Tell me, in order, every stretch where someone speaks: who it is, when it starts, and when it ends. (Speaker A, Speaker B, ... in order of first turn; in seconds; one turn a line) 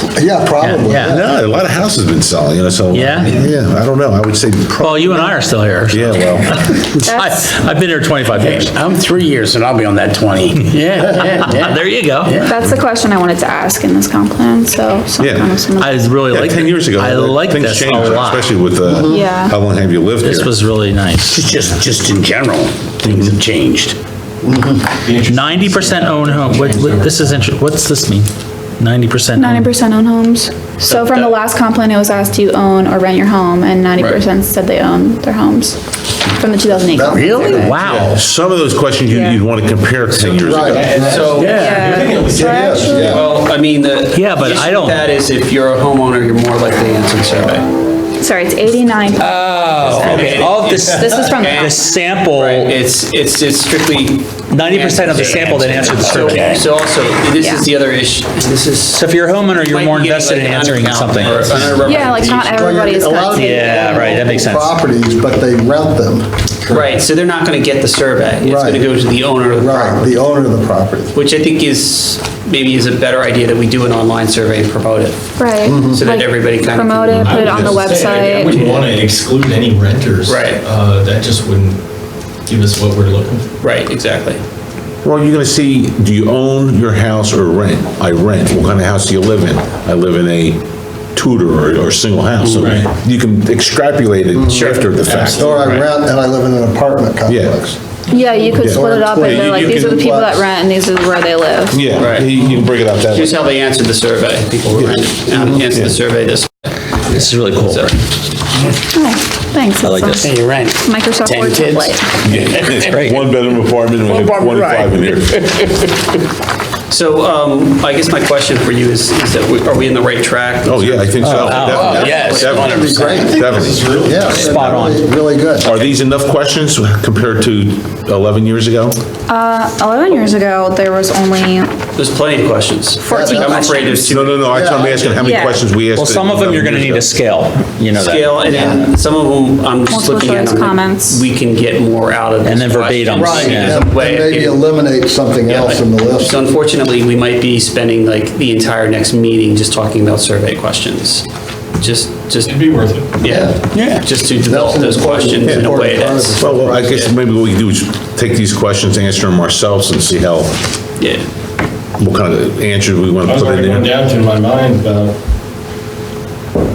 Speaker A: 0.1-1.3
Speaker B: 0.6-1.2
Speaker C: 1.1-6.6
Speaker B: 2.9-3.5
Speaker B: 4.8-8.7
Speaker D: 7.0-7.5
Speaker E: 8.3-12.5
Speaker B: 10.8-12.4
Speaker D: 12.4-16.1
Speaker C: 15.2-15.6
Speaker B: 15.8-18.5
Speaker C: 16.3-20.5
Speaker A: 18.8-19.2
Speaker D: 19.1-19.6
Speaker B: 20.2-21.4
Speaker E: 21.3-24.0
Speaker C: 23.1-23.4
Speaker A: 24.4-24.9
Speaker F: 25.0-27.4
Speaker B: 25.3-28.3
Speaker B: 28.8-29.7
Speaker D: 29.3-37.7
Speaker G: 30.9-31.3
Speaker G: 34.0-34.2
Speaker A: 36.7-37.7
Speaker E: 37.1-38.1
Speaker B: 37.5-38.2
Speaker C: 37.8-41.0
Speaker D: 39.1-39.4
Speaker G: 40.1-41.8
Speaker A: 40.4-41.4
Speaker F: 40.6-43.3
Speaker E: 41.3-41.7
Speaker D: 41.4-43.2
Speaker A: 42.5-43.0
Speaker C: 42.9-43.2
Speaker G: 42.9-47.7
Speaker B: 44.1-45.0
Speaker D: 48.2-49.5
Speaker B: 49.2-52.7
Speaker G: 49.8-62.7
Speaker D: 50.8-51.9
Speaker B: 54.5-56.6
Speaker E: 56.0-56.7
Speaker D: 57.4-57.7
Speaker B: 58.9-61.9
Speaker D: 61.7-64.0
Speaker A: 62.5-66.9
Speaker B: 63.3-64.8
Speaker G: 66.7-70.2
Speaker A: 68.4-68.9
Speaker A: 69.6-71.1
Speaker G: 71.1-75.2
Speaker D: 75.4-78.6
Speaker A: 75.6-76.1
Speaker G: 75.8-78.9
Speaker F: 77.1-81.8
Speaker G: 80.2-80.6
Speaker F: 82.5-83.5
Speaker G: 83.6-84.4
Speaker C: 85.0-95.6
Speaker F: 92.5-92.9
Speaker A: 94.3-97.8
Speaker G: 94.5-95.0
Speaker F: 95.0-95.8
Speaker G: 95.6-95.8
Speaker C: 97.3-97.6
Speaker D: 98.1-101.9
Speaker C: 98.5-99.9
Speaker A: 98.5-100.5
Speaker C: 101.7-103.4
Speaker G: 102.0-102.3
Speaker G: 102.9-108.0
Speaker C: 104.7-105.0
Speaker B: 107.1-107.9
Speaker D: 108.9-112.1
Speaker B: 109.8-110.3
Speaker E: 110.1-113.2
Speaker C: 112.2-115.3
Speaker E: 114.0-116.2
Speaker G: 116.9-123.0
Speaker C: 120.6-123.9
Speaker E: 121.2-123.3
Speaker B: 121.3-121.9
Speaker A: 122.7-123.4
Speaker F: 123.0-124.7
Speaker A: 124.0-125.7
Speaker B: 124.3-125.0
Speaker C: 125.6-129.0
Speaker D: 129.3-131.8
Speaker G: 131.9-135.2
Speaker D: 133.0-134.1
Speaker A: 133.1-133.7
Speaker C: 134.1-137.1
Speaker A: 134.5-135.0
Speaker D: 135.2-135.6
Speaker B: 135.9-138.8
Speaker G: 137.9-144.7
Speaker D: 139.9-141.2
Speaker B: 142.4-143.8
Speaker A: 143.1-146.3
Speaker G: 145.4-151.3
Speaker G: 151.8-157.1
Speaker F: 152.4-153.2
Speaker A: 153.2-153.6
Speaker B: 153.7-154.0
Speaker A: 154.4-156.6
Speaker C: 155.4-155.7
Speaker C: 156.4-160.6
Speaker G: 161.0-161.2
Speaker C: 162.0-163.9
Speaker F: 163.2-165.2